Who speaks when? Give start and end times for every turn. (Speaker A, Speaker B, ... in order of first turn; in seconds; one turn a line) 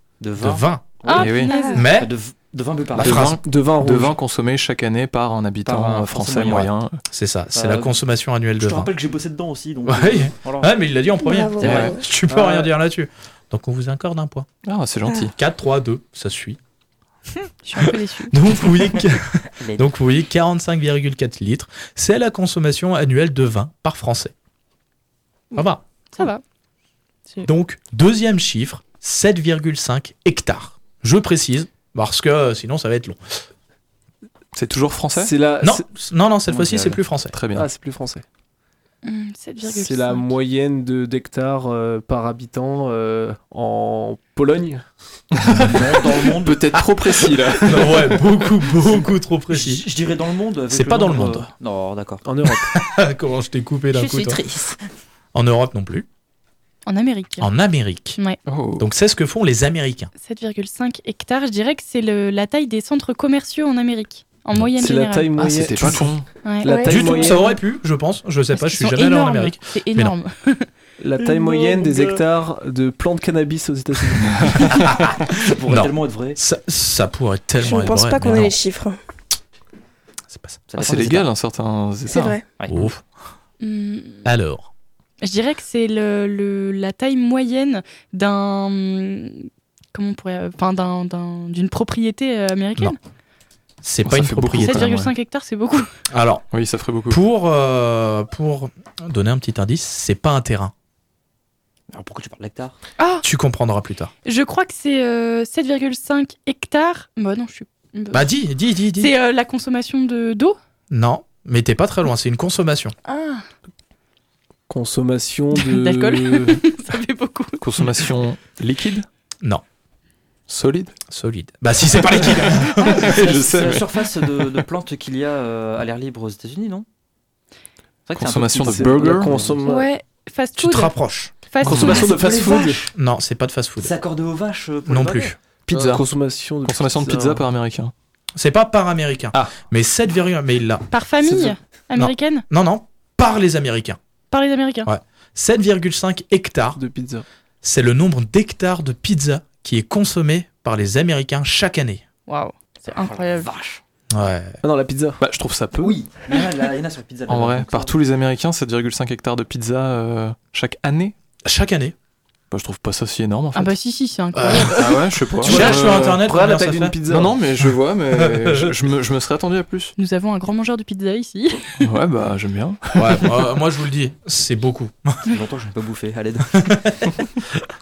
Speaker A: 0.2-3.3
Speaker B: 0.4-1.0
Speaker C: 1.0-1.8
Speaker D: 1.1-1.6
Speaker E: 1.4-1.9
Speaker B: 1.7-2.1
Speaker D: 3.0-7.0
Speaker B: 3.0-3.4
Speaker F: 3.3-4.2
Speaker A: 5.7-6.7
Speaker B: 7.1-8.9
Speaker A: 7.5-8.0
Speaker A: 8.6-10.7
Speaker B: 9.9-14.5
Speaker E: 11.2-12.0
Speaker A: 11.6-11.9
Speaker D: 11.6-11.9
Speaker F: 12.3-12.7
Speaker D: 14.6-15.3
Speaker B: 15.3-16.6
Speaker C: 17.6-18.4
Speaker B: 18.3-24.3
Speaker A: 19.6-19.9
Speaker B: 25.5-25.8
Speaker C: 26.1-26.4
Speaker B: 27.4-33.4
Speaker D: 34.5-35.4
Speaker F: 35.1-35.8
Speaker B: 35.6-37.3
Speaker A: 36.5-37.0
Speaker D: 37.3-37.7
Speaker F: 37.5-38.2
Speaker C: 39.0-40.3
Speaker F: 39.6-44.9
Speaker D: 45.4-45.8
Speaker A: 45.7-46.8
Speaker D: 46.4-48.1
Speaker B: 47.6-49.9
Speaker A: 48.8-52.2
Speaker B: 50.7-51.5
Speaker F: 52.2-52.8
Speaker B: 52.7-54.4
Speaker A: 53.9-54.7
Speaker B: 55.3-56.0
Speaker C: 56.9-57.5
Speaker B: 57.4-58.2
Speaker D: 58.5-58.9
Speaker B: 58.8-60.1
Speaker C: 60.2-65.3
Speaker F: 64.8-67.5
Speaker D: 65.4-66.4
Speaker C: 66.4-67.3
Speaker E: 66.6-67.2
Speaker B: 66.8-70.1
Speaker C: 68.5-70.7
Speaker F: 71.0-74.6
Speaker A: 71.4-72.2
Speaker B: 74.8-78.5
Speaker A: 75.4-76.4
Speaker E: 77.6-79.0
Speaker B: 80.3-81.2
Speaker A: 80.7-81.2
Speaker D: 80.8-82.4
Speaker E: 82.1-82.4
Speaker B: 82.7-83.0
Speaker C: 83.6-84.3
Speaker B: 84.2-84.7
Speaker C: 85.2-93.0
Speaker B: 93.8-94.8
Speaker D: 94.0-95.1
Speaker C: 94.6-95.9
Speaker B: 96.1-96.5
Speaker D: 96.5-97.2
Speaker B: 97.1-100.7
Speaker A: 101.9-102.8
Speaker C: 103.0-103.2
Speaker B: 103.2-104.1
Speaker C: 104.2-108.3
Speaker B: 108.1-109.1
Speaker C: 109.0-110.6
Speaker B: 110.9-112.9
Speaker C: 113.0-113.5
Speaker F: 114.7-116.6
Speaker C: 115.5-117.6
Speaker D: 117.6-119.0
Speaker D: 120.5-121.0
Speaker B: 121.1-123.1
Speaker D: 122.9-124.0
Speaker A: 122.9-126.8
Speaker A: 128.1-129.5
Speaker D: 128.1-129.4
Speaker F: 128.6-129.9
Speaker C: 129.6-132.5
Speaker B: 130.6-131.3
Speaker F: 131.6-132.9
Speaker D: 131.7-132.1
Speaker A: 131.9-132.9
Speaker B: 132.9-133.9
Speaker A: 133.8-135.3
Speaker B: 134.8-135.4
Speaker D: 135.7-137.9
Speaker F: 135.7-137.4
Speaker B: 138.3-140.8
Speaker C: 140.9-142.4
Speaker F: 141.2-141.5
Speaker B: 141.9-144.0
Speaker C: 144.3-144.9
Speaker B: 144.8-146.8
Speaker F: 146.8-147.2
Speaker B: 147.6-152.0
Speaker C: 152.3-153.5
Speaker A: 153.0-153.8
Speaker B: 154.1-154.6
Speaker F: 154.6-155.2
Speaker D: 155.2-155.9
Speaker A: 155.8-157.9
Speaker D: 157.3-161.1
Speaker B: 161.4-161.9
Speaker D: 162.5-163.7
Speaker C: 163.5-165.1
Speaker B: 164.3-164.9
Speaker D: 164.7-166.2
Speaker B: 165.4-167.0
Speaker F: 165.4-167.4
Speaker D: 167.1-169.9
Speaker B: 168.1-168.7
Speaker C: 170.0-171.8
Speaker D: 171.8-173.3
Speaker B: 172.9-175.2
Speaker A: 175.3-176.8
Speaker B: 176.5-177.1